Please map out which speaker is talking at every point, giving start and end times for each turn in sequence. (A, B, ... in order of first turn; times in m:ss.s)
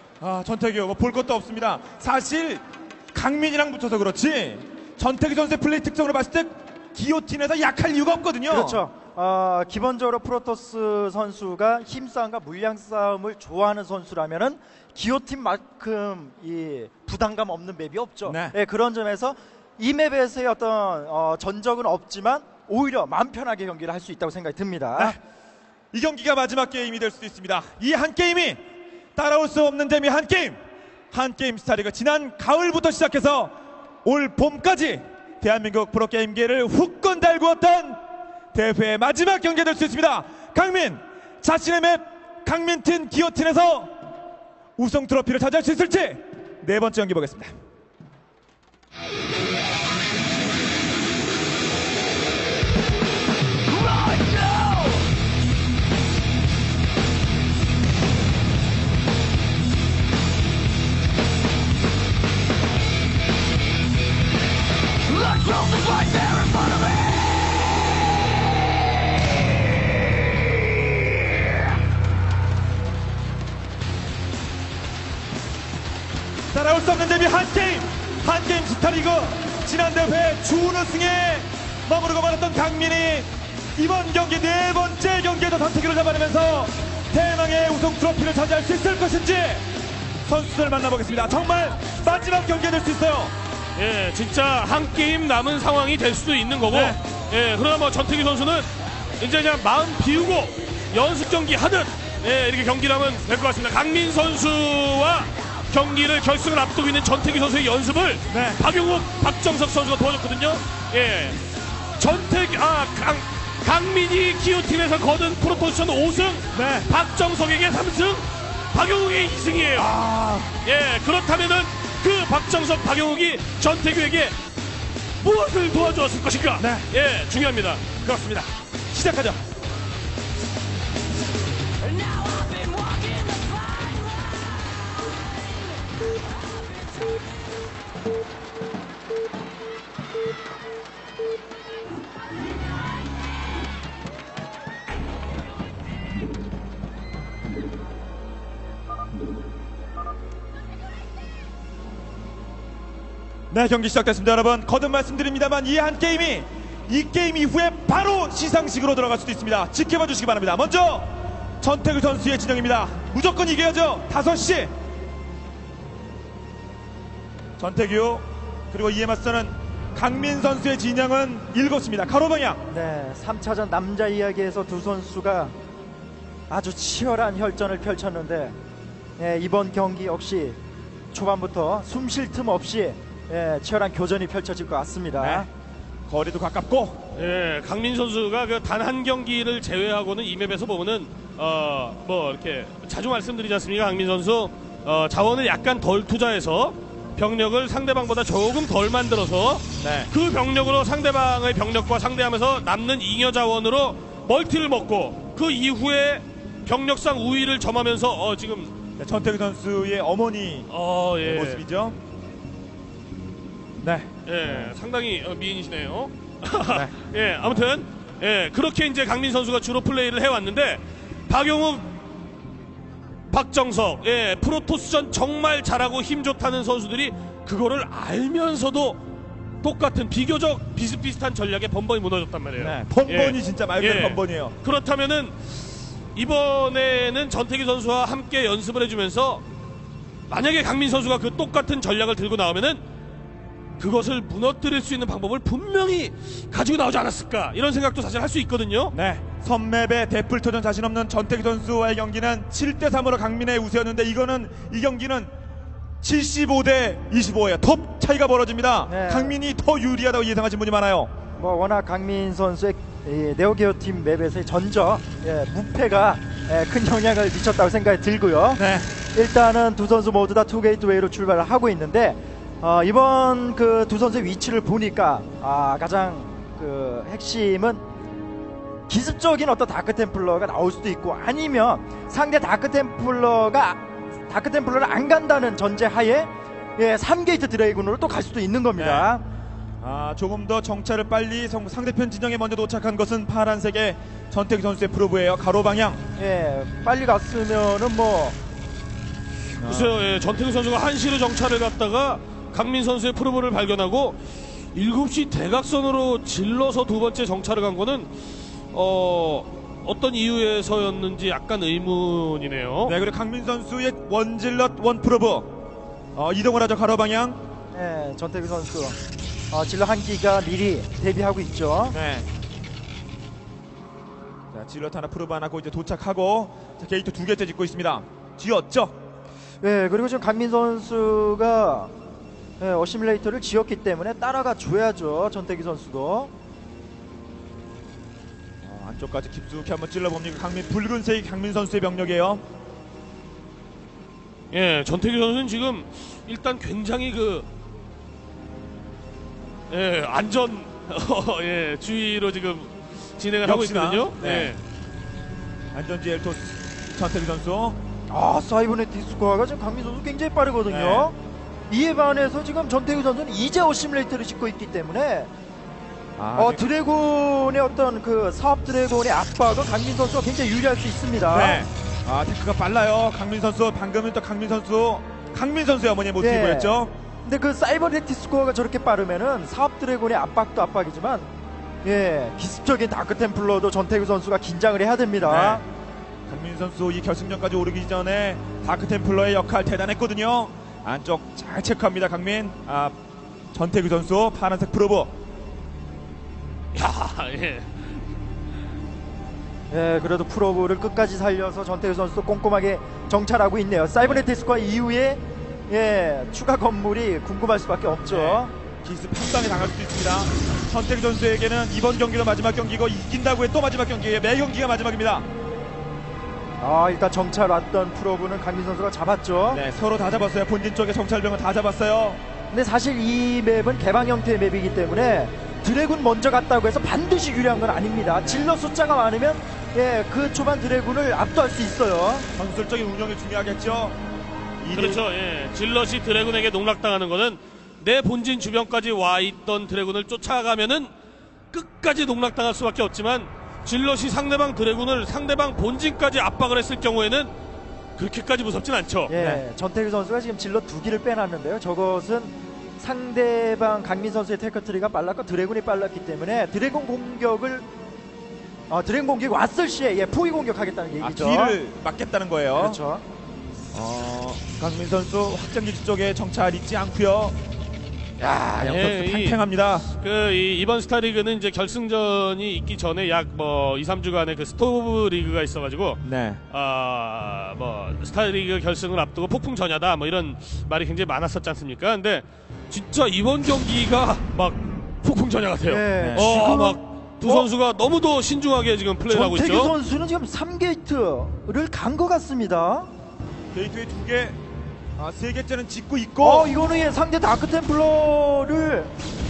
0:00.2-0:08.8 A
0:08.5-0:25.2 B
0:18.3-0:18.6 A
0:25.9-0:28.6 A
0:29.2-0:30.6 A
0:31.1-0:38.0 A
0:38.5-0:44.0 A
0:44.8-0:47.5 A
1:16.5-1:29.7 A
1:30.2-1:33.4 A
1:33.8-1:51.4 C
1:36.7-1:37.0 A
1:48.3-1:48.6 A
1:52.0-2:00.0 C
1:56.5-1:56.9 A
1:59.8-2:00.6 A
2:00.6-2:04.4 C
2:05.2-2:08.0 C
2:06.6-2:06.9 A
2:08.0-2:09.4 A
2:33.5-2:44.7 A
2:47.6-2:52.6 A
2:52.7-2:55.6 B
2:56.5-2:58.6 B
2:59.2-3:00.6 B
3:01.1-3:05.5 B
3:05.2-3:05.5 A
3:06.1-3:07.0 A
3:07.1-3:28.7 C
3:19.8-3:20.1 A
3:29.0-3:30.7 A
3:30.7-3:31.6 C
3:31.2-3:32.0 A
3:33.8-3:34.7 A
3:34.3-3:41.9 C
3:36.7-3:37.7 A
3:43.3-3:49.0 C
3:49.6-3:55.5 C
3:52.6-3:54.6 A
3:56.2-3:59.4 C
4:00.3-4:02.8 C
4:03.8-4:08.9 C
4:08.9-4:15.3 A
4:16.0-4:21.1 A
4:18.9-4:19.4 B
4:21.4-4:28.6 B
4:28.6-4:28.9 A
4:29.1-4:37.8 B
4:38.9-4:49.2 B
4:48.8-4:49.1 A
4:49.8-4:56.0 A
4:56.2-4:58.4 B
4:59.6-4:59.9 A
4:59.6-5:08.1 C
5:08.7-5:13.0 C
5:12.9-5:15.6 A
5:16.2-5:17.4 A
5:17.7-5:19.0 B
5:19.5-5:22.0 B
5:21.9-5:22.3 A
5:24.5-5:29.0 A
5:29.6-5:31.9 B
5:32.6-5:36.3 B
5:38.6-5:42.4 A
5:44.5-5:47.5 C
5:49.7-5:54.6 C
5:53.4-5:54.6 A
5:55.7-5:57.8 A
5:58.1-6:01.2 B
6:00.7-6:01.1 A
6:01.7-6:05.3 B
6:06.2-6:06.7 A
6:06.4-6:11.6 B
6:11.3-6:16.9 A
6:16.2-6:21.3 B
6:21.8-6:25.6 B
6:25.2-6:25.6 A
6:26.3-6:33.0 A
6:33.5-6:35.1 A
6:36.7-6:37.9 C
6:39.7-6:48.5 B
6:48.1-6:55.3 A
6:56.6-6:59.6 B
6:59.5-7:02.2 A
7:02.5-7:12.3 B
7:08.2-7:08.5 A
7:12.4-7:14.0 A
7:14.6-7:15.0 A
7:14.7-7:20.9 C
7:21.5-7:27.3 C
7:28.0-7:29.1 C
7:29.1-7:37.7 B
7:29.1-7:29.4 A
7:38.7-7:41.6 B
7:41.0-7:42.8 A
7:42.5-7:43.0 B
7:43.7-7:47.4 A
7:48.2-7:49.4 C
7:48.6-7:49.9 A
7:50.0-8:09.7 C
7:56.0-7:56.4 A
8:05.7-8:07.5 B
8:06.0-8:06.4 A
8:09.1-8:12.9 B
8:13.5-8:14.4 A
8:15.0-8:16.5 A
8:16.2-8:18.9 B